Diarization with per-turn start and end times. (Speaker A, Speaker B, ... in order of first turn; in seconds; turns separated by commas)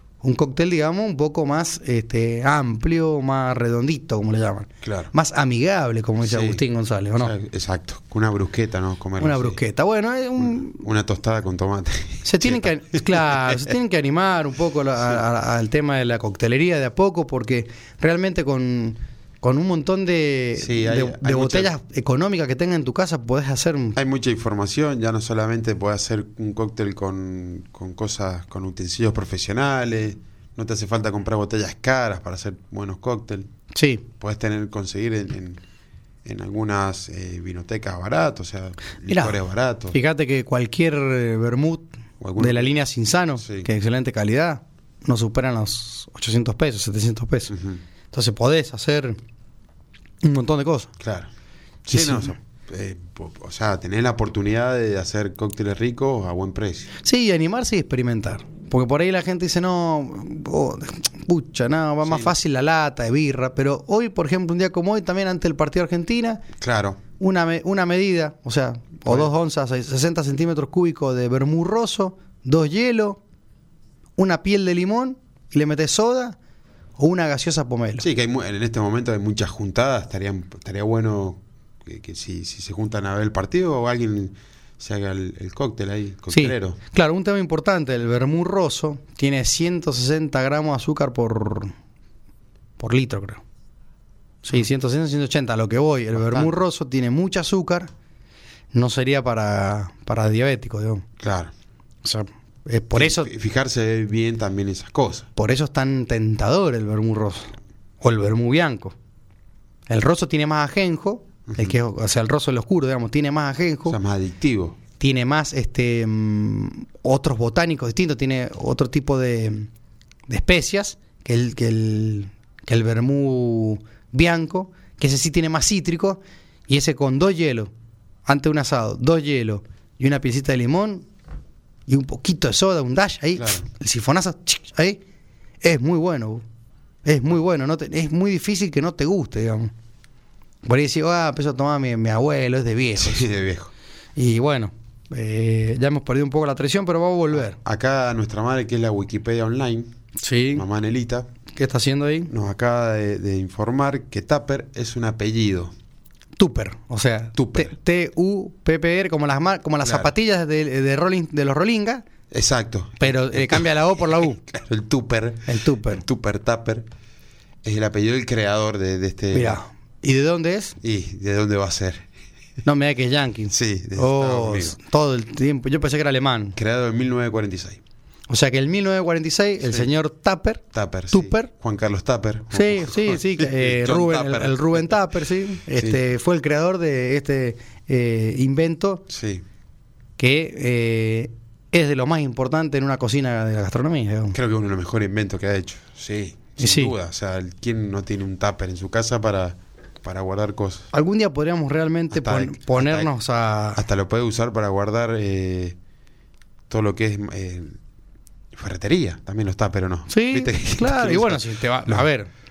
Speaker A: 0.2-7.3, Speaker B: 4.8-5.1, Speaker B: 6.2-6.6, Speaker B: 7.2-9.6, Speaker A: 9.2-10.8, Speaker B: 10.4-13.7, Speaker A: 12.2-24.0, Speaker B: 20.6-21.7, Speaker B: 23.9-33.5, Speaker A: 33.7-34.0, Speaker B: 34.2-35.6, Speaker B: 36.2-40.0, Speaker A: 39.1-39.4, Speaker A: 39.9-47.5, Speaker B: 42.2-42.7, Speaker B: 43.4-43.7, Speaker B: 47.5-47.8, Speaker A: 48.1-49.2, Speaker A: 50.2-50.9, Speaker B: 51.0-51.3, Speaker B: 51.9-56.9, Speaker A: 51.9-52.4, Speaker A: 57.0-66.5, Speaker B: 62.0-62.3, Speaker B: 66.6-67.0, Speaker A: 67.2-73.2, Speaker A: 74.2-76.4, Speaker A: 77.0-78.0, Speaker B: 78.0-86.8, Speaker A: 86.3-91.7, Speaker A: 92.8-93.4, Speaker A: 94.4-97.9, Speaker B: 96.2-96.5, Speaker A: 98.7-101.0, Speaker B: 101.2-101.5, Speaker A: 102.0-103.3, Speaker B: 102.9-105.3, Speaker A: 105.3-108.9, Speaker A: 109.9-114.0, Speaker B: 111.5-111.7, Speaker B: 113.9-114.8, Speaker A: 115.0-119.7, Speaker A: 120.3-127.7, Speaker A: 128.2-131.1, Speaker A: 131.9-135.0, Speaker B: 133.4-133.6, Speaker A: 135.6-136.4, Speaker A: 137.0-139.7, Speaker A: 140.6-143.2, Speaker B: 143.0-143.7, Speaker A: 144.2-147.6, Speaker B: 147.3-149.9, Speaker A: 150.2-150.6, Speaker B: 150.5-151.3, Speaker A: 151.5-152.3, Speaker B: 152.3-155.7, Speaker A: 156.4-162.0, Speaker B: 157.3-157.7, Speaker B: 159.8-160.1, Speaker B: 162.3-166.9, Speaker A: 163.0-164.4, Speaker A: 165.5-166.0, Speaker B: 167.6-169.6, Speaker A: 169.3-170.8, Speaker B: 170.8-172.1, Speaker A: 172.6-176.6, Speaker B: 173.5-174.8, Speaker B: 176.6-177.8, Speaker A: 178.3-181.5, Speaker B: 179.6-179.9, Speaker B: 180.7-184.8, Speaker A: 182.5-189.1, Speaker B: 189.1-189.4, Speaker A: 190.2-194.4, Speaker B: 194.3-200.9, Speaker A: 196.6-196.9, Speaker A: 200.9-203.8, Speaker B: 202.1-203.1, Speaker B: 203.7-205.8, Speaker B: 206.7-207.8, Speaker B: 208.5-212.1, Speaker A: 210.1-212.3